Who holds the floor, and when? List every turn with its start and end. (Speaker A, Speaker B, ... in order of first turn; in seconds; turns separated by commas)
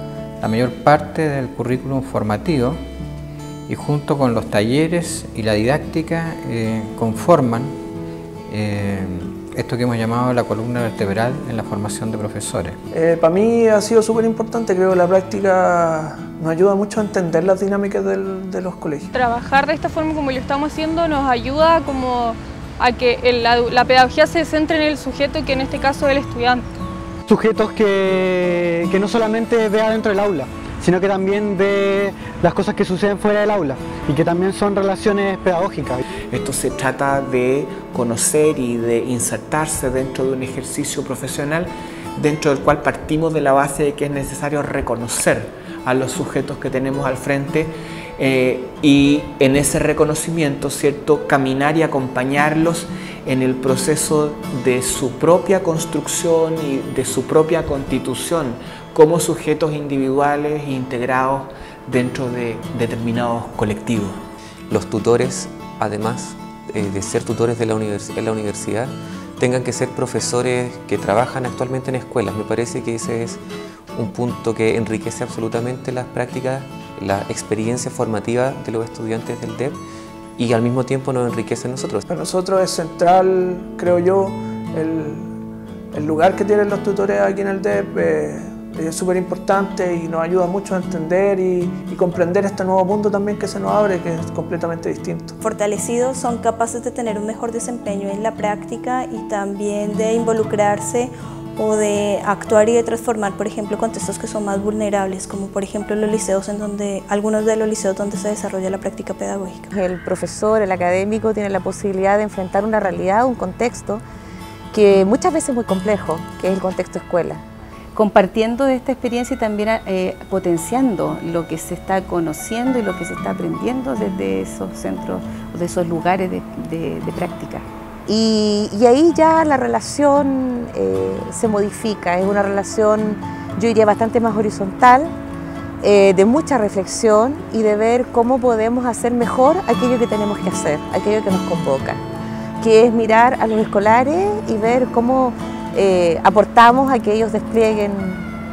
Speaker A: 0.4-2.8, Speaker A: 3.7-7.7, Speaker A: 8.5-12.8, Speaker B: 12.9-19.1, Speaker C: 19.1-26.7, Speaker D: 27.3-36.0, Speaker E: 36.3-64.1, Speaker F: 64.7-73.4, Speaker F: 74.0-79.8, Speaker F: 80.4-82.0, Speaker B: 82.1-85.3, Speaker B: 85.9-95.3, Speaker G: 95.4-109.7, Speaker H: 109.7-114.0, Speaker H: 114.7-117.4, Speaker I: 118.0-127.5, Speaker H: 128.1-135.1, Speaker H: 135.8-142.0, Speaker H: 142.6-148.2